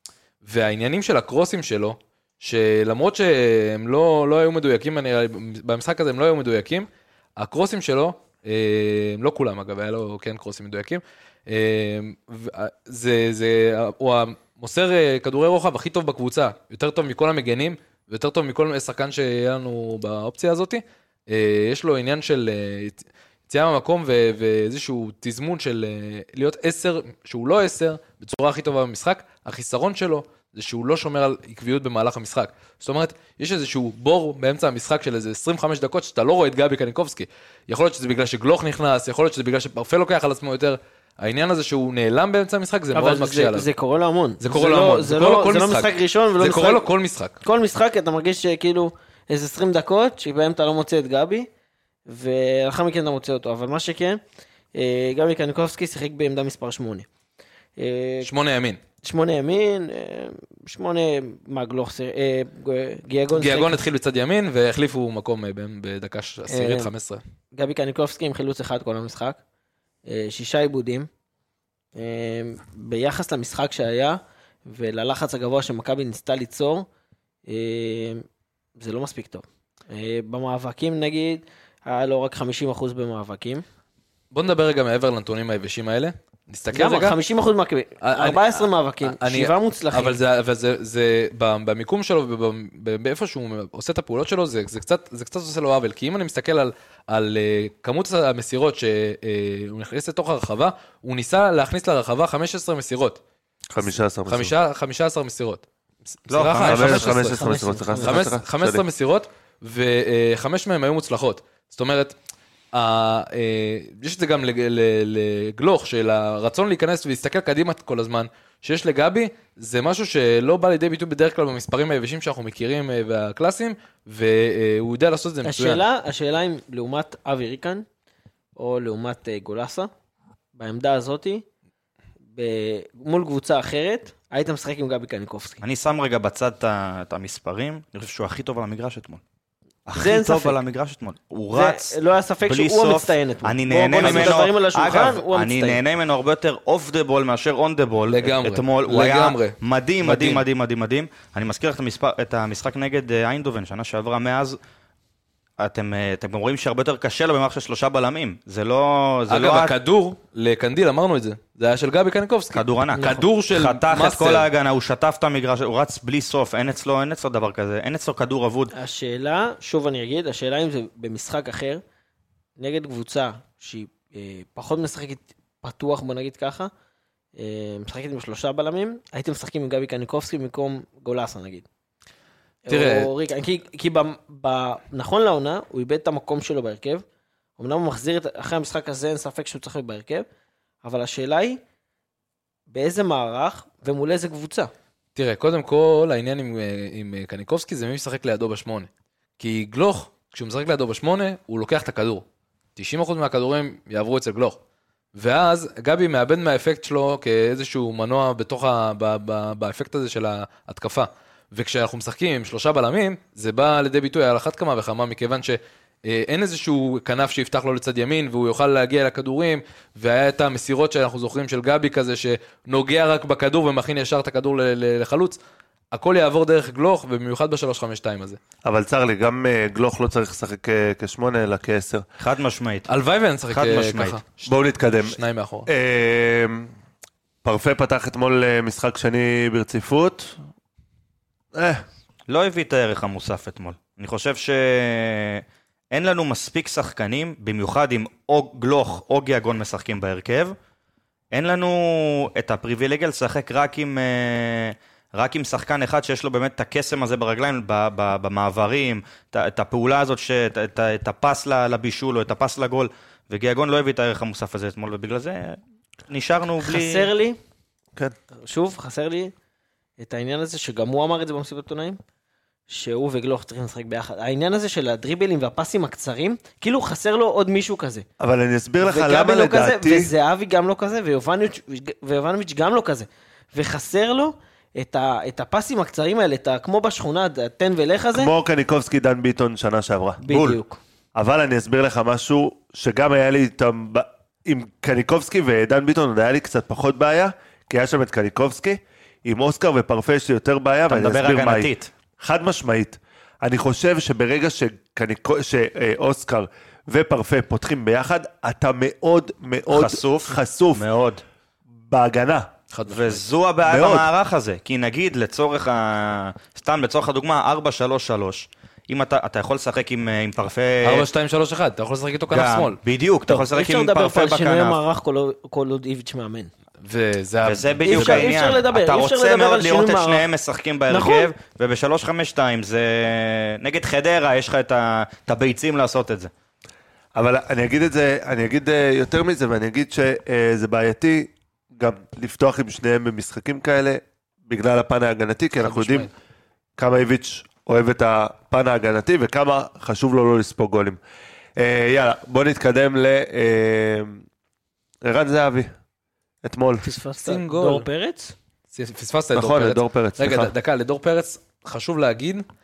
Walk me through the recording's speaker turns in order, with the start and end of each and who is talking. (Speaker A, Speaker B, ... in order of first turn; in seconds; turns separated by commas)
Speaker A: 0.4-43.7, Speaker B: 42.9-46.8, Speaker A: 44.4-47.4, Speaker B: 47.4-51.5, Speaker B: 52.1-54.2, Speaker B: 54.7-57.1, Speaker B: 57.8-58.3, Speaker A: 58.2-58.8, Speaker B: 59.0-63.8, Speaker A: 63.3-67.2, Speaker B: 66.5-66.9, Speaker B: 67.5-69.4, Speaker B: 70.1-71.1, Speaker B: 72.0-76.8, Speaker B: 77.5-78.2, Speaker B: 78.8-83.6, Speaker A: 84.3-87.2, Speaker B: 86.7-90.2, Speaker A: 88.0-103.2, Speaker C: 103.7-104.5, Speaker A: 104.3-107.3, Speaker D: 106.3-107.2, Speaker C: 106.6-108.8, Speaker B: 107.3-108.2, Speaker A: 108.0-112.1, Speaker A: 112.7-125.8, Speaker B: 125.4-127.8, Speaker B: 128.6-129.9, Speaker B: 130.5-131.4, Speaker B: 132.3-135.6, Speaker D: 135.6-139.2, Speaker D: 139.9-142.0, Speaker B: 140.0-140.6, Speaker B: 141.5-145.8, Speaker D: 142.5-154.6, Speaker A: 144.0-144.4, Speaker A: 148.1-150.4, Speaker D: 155.6-159.7, Speaker A: 159.3-164.5, Speaker D: 162.5-168.7, Speaker B: 162.9-163.2, Speaker B: 168.7-171.8, Speaker B: 172.6-176.7, Speaker B: 177.3-181.7, Speaker B: 182.7-187.0, Speaker A: 182.7-183.1, Speaker B: 187.6-190.2, Speaker B: 190.8-191.6, Speaker B: 192.7-194.7, Speaker A: 195.1-202.2, Speaker A: 202.8-204.6, Speaker A: 205.1-225.4, Speaker A: 225.9-228.4, Speaker C: 228.6-232.1, Speaker D: 232.2-232.9, Speaker A: 232.9-235.7, Speaker D: 233.5-234.2, Speaker C: 234.4-236.7, Speaker C: 237.4-240.4, Speaker C: 241.5-241.8, Speaker D: 242.3-250.6, Speaker D: 251.3-267.1, Speaker B: 266.6-267.4, Speaker B: 268.4-269.3, Speaker B: 270.0-272.0, Speaker B: 272.7-278.1, Speaker C: 278.2-280.1, Speaker B: 278.8-288.3, Speaker C: 288.1-290.2, Speaker B: 290.2-290.8, Speaker D: 290.3-290.6, Speaker C: 291.1-310.8, Speaker D: 300.9-301.9, Speaker D: 309.7-311.2, Speaker C: 311.9-312.5, Speaker A: 312.7-313.2, Speaker D: 312.9-321.1, Speaker C: 313.6-314.1, Speaker A: 320.8-322.8, Speaker D: 322.3-324.8, Speaker B: 323.3-326.5, Speaker A: 326.8-328.4, Speaker D: 327.4-336.3, Speaker B: 327.8-330.3, Speaker B: 330.9-331.3, Speaker C: 337.1-346.1, Speaker A: 345.6-346.1, Speaker C: 346.8-351.0, Speaker C: 351.6-354.2, Speaker C: 355.0-355.7, Speaker C: 356.4-356.9, Speaker B: 356.8-358.4, Speaker A: 357.2-357.9, Speaker A: 358.7-362.4, Speaker C: 359.3-360.5